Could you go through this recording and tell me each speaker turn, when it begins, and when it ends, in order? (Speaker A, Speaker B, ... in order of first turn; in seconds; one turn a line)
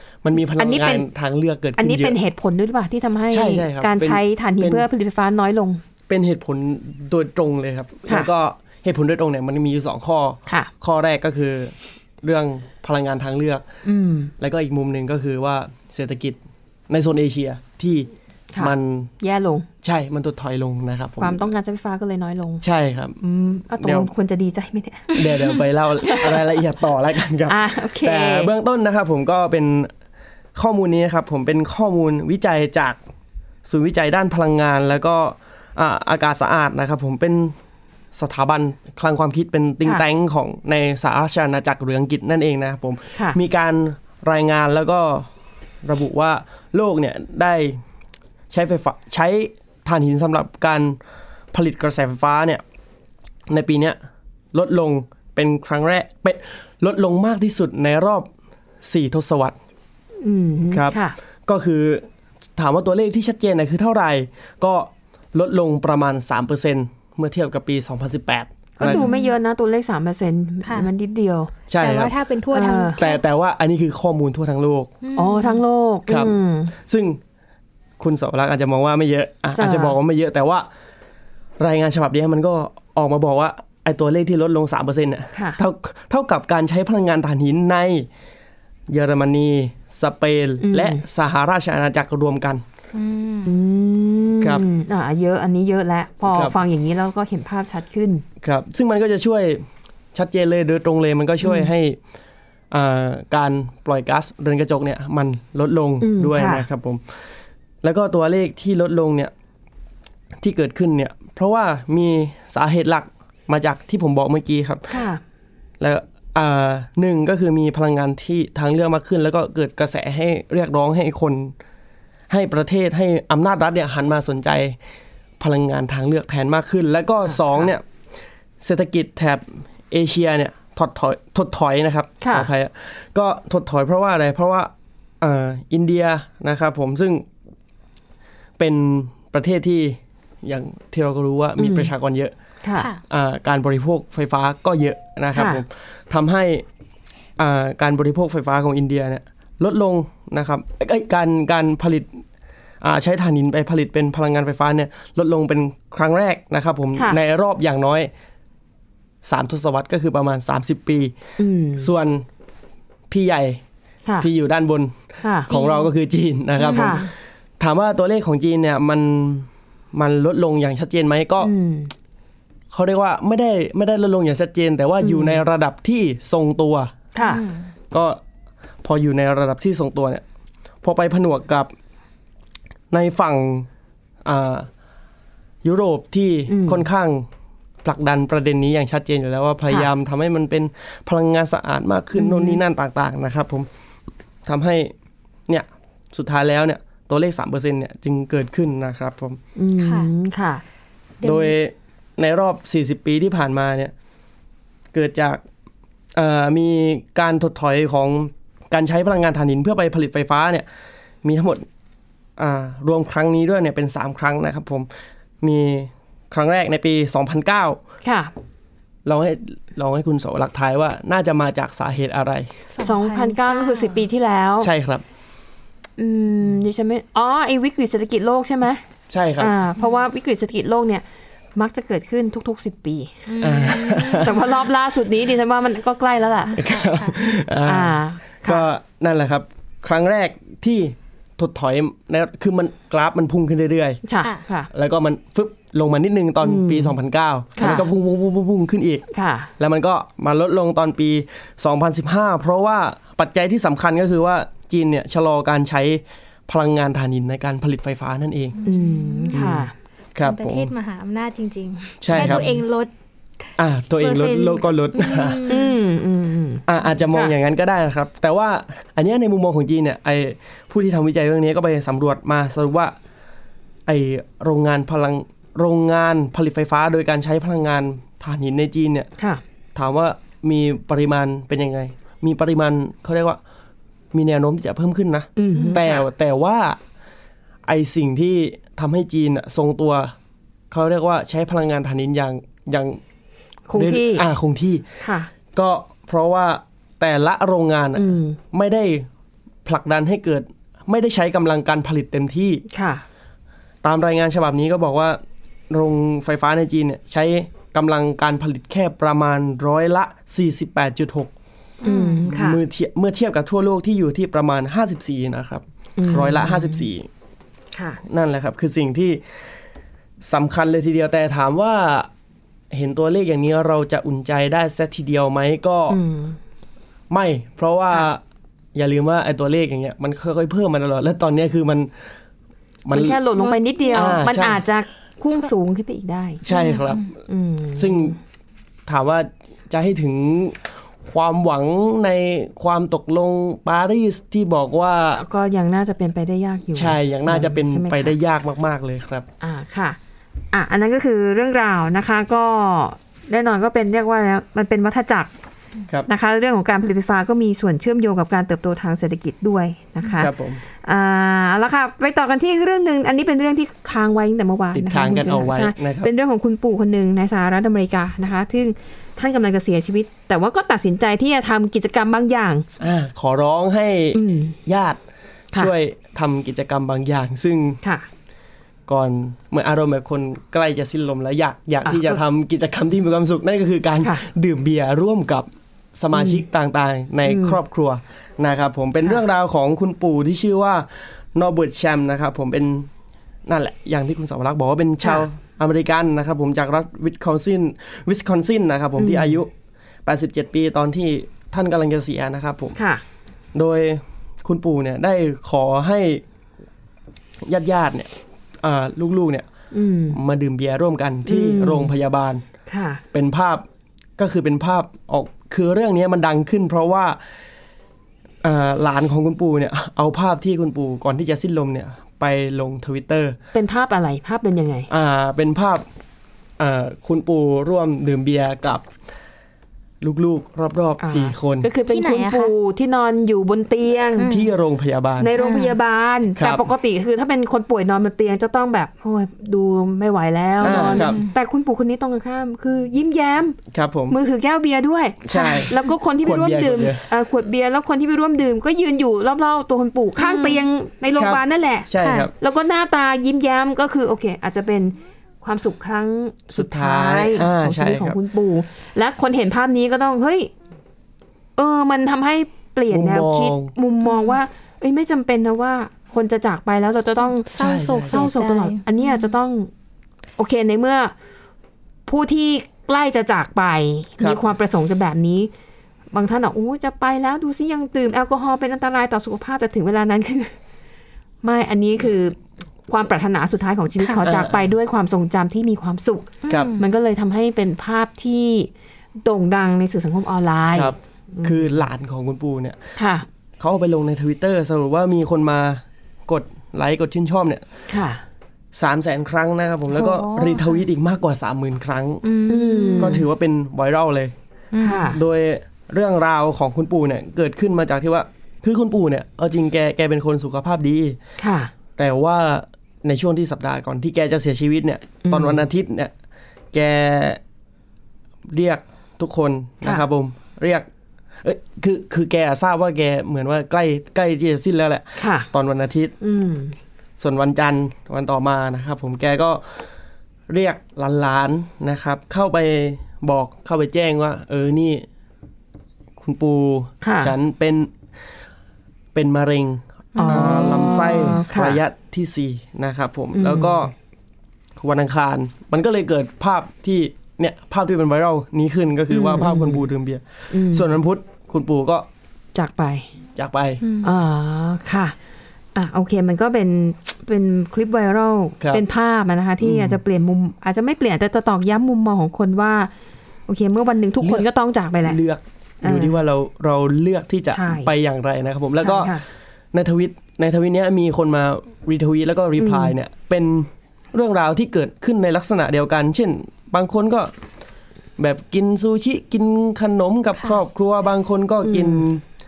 Speaker A: 0.2-2.2
Speaker B: 0.6-1.1
Speaker B: 1.8-5.8
Speaker A: 3.3-4.9
Speaker A: 6.1-13.7
Speaker B: 13.8-14.3
Speaker A: 14.4-19.1
Speaker B: 18.5-19.7
Speaker A: 19.8-21.5
Speaker B: 21.2-22.6
Speaker A: 22.6-23.2
Speaker B: 23.2-26.3
Speaker A: 23.8-24.1
Speaker A: 25.1-29.9
Speaker B: 27.5-28.5
Speaker A: 30.6-33.0
Speaker A: 33.7-37.6
Speaker A: 38.1-45.3
Speaker A: 45.8-47.8
Speaker A: 48.5-51.0
Speaker A: 51.5-52.6
Speaker A: 53.5-54.0
Speaker A: 54.5-58.3
Speaker A: 58.8-59.6
Speaker B: 60.2-61.2
Speaker A: 60.7-69.0
Speaker B: 68.8-71.5
Speaker C: 68.9-69.3
Speaker A: 71.7-72.2
Speaker C: 71.8-73.2
Speaker B: 72.5-73.0
Speaker A: 73.0-74.9
Speaker C: 75.0-75.6
Speaker B: 75.2-76.7
Speaker A: 76.1-77.2
Speaker A: 78.0-80.7
Speaker B: 79.5-80.0
Speaker A: 81.6-88.1
Speaker B: 85.3-85.6
Speaker A: 88.9-92.6
Speaker B: 90.6-91.0
Speaker C: 93.0-93.5
Speaker B: 93.5-98.2
Speaker A: 96.3-96.6
Speaker A: 98.4-102.0
Speaker B: 101.4-101.7
Speaker A: 102.7-107.2
Speaker B: 106.0-106.7
Speaker A: 107.8-109.3
Speaker A: 110.4-115.1
Speaker B: 114.9-115.2
Speaker A: 115.8-121.5
Speaker A: 122.3-124.8
Speaker A: 125.4-127.8
Speaker A: 128.6-137.3
Speaker B: 132.2-132.5
Speaker A: 138.6-142.3
Speaker B: 141.6-141.9
Speaker B: 142.6-142.9
Speaker A: 143.1-146.7
Speaker B: 145.3-145.6
Speaker A: 147.4-152.2
Speaker A: 152.8-158.1
Speaker A: 159.2-161.2
Speaker B: 161.4-161.9
Speaker A: 161.8-162.2
Speaker A: 163.1-163.6
Speaker A: 164.2-171.5
Speaker B: 165.2-165.8
Speaker B: 166.7-167.1
Speaker C: 166.7-167.0
Speaker B: 171.4-171.9
Speaker A: 172.7-176.9
Speaker B: 175.0-175.4
Speaker B: 177.2-177.4
Speaker C: 177.2-177.7
Speaker A: 177.9-178.2
Speaker A: 178.8-180.2
Speaker A: 180.8-181.7
Speaker A: 182.9-183.7
Speaker A: 184.2-184.7
Speaker A: 185.6-187.3
Speaker B: 186.5-186.8
Speaker A: 187.8-193.7
Speaker B: 192.2-192.6
Speaker A: 194.5-194.9
Speaker A: 195.5-199.4
Speaker B: 199.6-200.6
Speaker C: 199.8-200.1
Speaker A: 201.2-203.9
Speaker A: 204.9-205.4
Speaker A: 206.1-210.7
Speaker A: 211.2-211.7
Speaker A: 212.4-214.9
Speaker A: 215.4-217.8
Speaker B: 218.0-218.3
Speaker A: 219.1-222.6
Speaker C: 222.8-224.0
Speaker B: 222.8-224.7
Speaker A: 224.6-225.0
Speaker B: 226.0-228.8
Speaker A: 229.1-229.5
Speaker B: 229.4-231.0
Speaker B: 231.6-233.3
Speaker C: 233.3-234.3
Speaker A: 233.4-234.4
Speaker B: 233.9-236.7
Speaker A: 236.6-244.0
Speaker C: 236.7-237.2
Speaker B: 237.6-238.7
Speaker B: 244.0-244.7
Speaker A: 244.7-249.1
Speaker B: 246.4-247.0
Speaker B: 247.6-247.9
Speaker B: 249.1-249.5
Speaker A: 249.6-258.6
Speaker C: 258.6-259.3
Speaker B: 258.7-259.7
Speaker A: 259.3-260.7
Speaker C: 260.2-262.9
Speaker A: 262.0-262.6
Speaker B: 262.1-262.5
Speaker A: 263.6-265.5
Speaker C: 264.0-265.7
Speaker B: 265.5-267.3
Speaker A: 266.7-272.9
Speaker A: 273.9-279.1
Speaker A: 279.8-283.4
Speaker A: 284.1-286.8
Speaker B: 285.4-286.0
Speaker A: 287.6-290.1
Speaker A: 290.7-293.0
Speaker B: 293.7-294.2
Speaker A: 293.8-294.9
Speaker B: 295.0-295.3
Speaker A: 295.5-299.1
Speaker B: 298.0-298.4
Speaker A: 299.6-302.6
Speaker B: 302.7-303.0
Speaker A: 303.8-311.3
Speaker C: 311.8-312.2
Speaker B: 311.8-312.6
Speaker A: 312.3-317.1
Speaker B: 316.0-316.9
Speaker B: 317.7-318.0
Speaker A: 318.0-319.2
Speaker A: 320.2-322.1
Speaker A: 322.7-326.0
Speaker B: 325.9-326.4
Speaker A: 327.1-328.2
Speaker A: 328.8-331.9
Speaker A: 332.9-333.2
Speaker B: 332.9-336.4
Speaker C: 333.5-334.1
Speaker A: 333.9-334.6
Speaker A: 336.4-337.1
Speaker C: 336.5-337.1
Speaker B: 337.3-338.2
Speaker A: 337.8-338.2
Speaker A: 338.9-345.2
Speaker B: 345.2-348.2
Speaker A: 346.8-349.3
Speaker B: 349.4-350.0
Speaker B: 350.5-355.3
Speaker B: 356.1-360.3
Speaker A: 360.2-360.6
Speaker B: 360.8-372.7
Speaker A: 364.7-366.1
Speaker A: 372.8-375.0
Speaker B: 374.1-374.6
Speaker A: 375.5-377.8
Speaker A: 378.9-392.9
Speaker B: 381.8-382.2
Speaker B: 386.1-386.4
Speaker B: 387.3-387.6
Speaker A: 393.5-399.5
Speaker B: 399.0-399.4
Speaker A: 400.1-402.8
Speaker B: 402.8-403.0
Speaker A: 403.5-406.2
Speaker A: 407.4-409.5
Speaker B: 409.7-410.2
Speaker A: 410.1-412.4
Speaker B: 411.3-411.9
Speaker B: 412.7-413.0
Speaker A: 413.1-413.7
Speaker A: 414.2-417.2
Speaker A: 418.4-423.4
Speaker B: 423.5-424.9
Speaker A: 424.9-425.9
Speaker A: 426.6-428.9
Speaker A: 430.0-431.7
Speaker B: 431.0-434.3
Speaker C: 431.9-432.5
Speaker C: 434.2-434.5
Speaker A: 434.2-435.3
Speaker B: 435.2-443.6
Speaker C: 435.4-435.8
Speaker A: 436.4-436.6
Speaker A: 440.6-441.2
Speaker C: 440.6-441.3
Speaker A: 443.7-444.2
Speaker B: 444.1-460.5
Speaker A: 445.2-447.1
Speaker C: 450.2-450.6
Speaker A: 451.2-452.3
Speaker C: 452.0-452.3
Speaker A: 456.5-458.2
Speaker B: 461.6-469.7
Speaker A: 462.9-463.7
Speaker C: 467.5-469.3
Speaker A: 467.5-468.2
Speaker B: 470.4-471.1
Speaker B: 472.1-475.5
Speaker B: 476.1-480.5
Speaker B: 481.4-482.4
Speaker B: 482.9-488.7
Speaker A: 484.2-484.6
Speaker C: 486.5-486.8
Speaker A: 486.5-486.8
Speaker B: 489.2-491.9
Speaker A: 490.7-492.9
Speaker B: 493.0-493.3
Speaker A: 493.6-497.7
Speaker B: 497.9-498.2
Speaker A: 498.8-502.2
Speaker C: 500.0-500.7
Speaker C: 502.3-503.2
Speaker B: 502.5-503.3
Speaker A: 503.0-504.3
Speaker C: 504.7-505.1
Speaker B: 504.8-505.2
Speaker A: 505.1-511.2
Speaker B: 511.4-511.7
Speaker A: 512.0-516.1
Speaker B: 515.2-515.6
Speaker A: 516.7-517.4
Speaker A: 518.5-520.9
Speaker A: 521.4-526.1
Speaker B: 525.2-525.5
Speaker B: 526.2-526.8
Speaker A: 527.2-529.9
Speaker A: 530.5-535.1
Speaker A: 536.2-537.9
Speaker B: 537.0-537.3
Speaker A: 539.1-543.9
Speaker B: 540.2-541.8
Speaker C: 540.2-541.3
Speaker B: 543.3-543.9
Speaker A: 544.8-552.1
Speaker B: 549.1-549.9
Speaker B: 550.5-551.0
Speaker B: 552.5-553.1
Speaker A: 553.4-553.8
Speaker C: 553.8-554.1
Speaker B: 554.0-555.2
Speaker B: 555.8-562.9
Speaker A: 559.6-560.0
Speaker B: 563.5-565.2
Speaker A: 564.2-564.5
Speaker A: 565.0-569.2
Speaker B: 565.8-566.2
Speaker B: 567.5-567.9
Speaker B: 568.8-569.2
Speaker A: 569.7-577.3
Speaker B: 572.6-572.9
Speaker A: 578.2-582.2
Speaker B: 581.6-582.0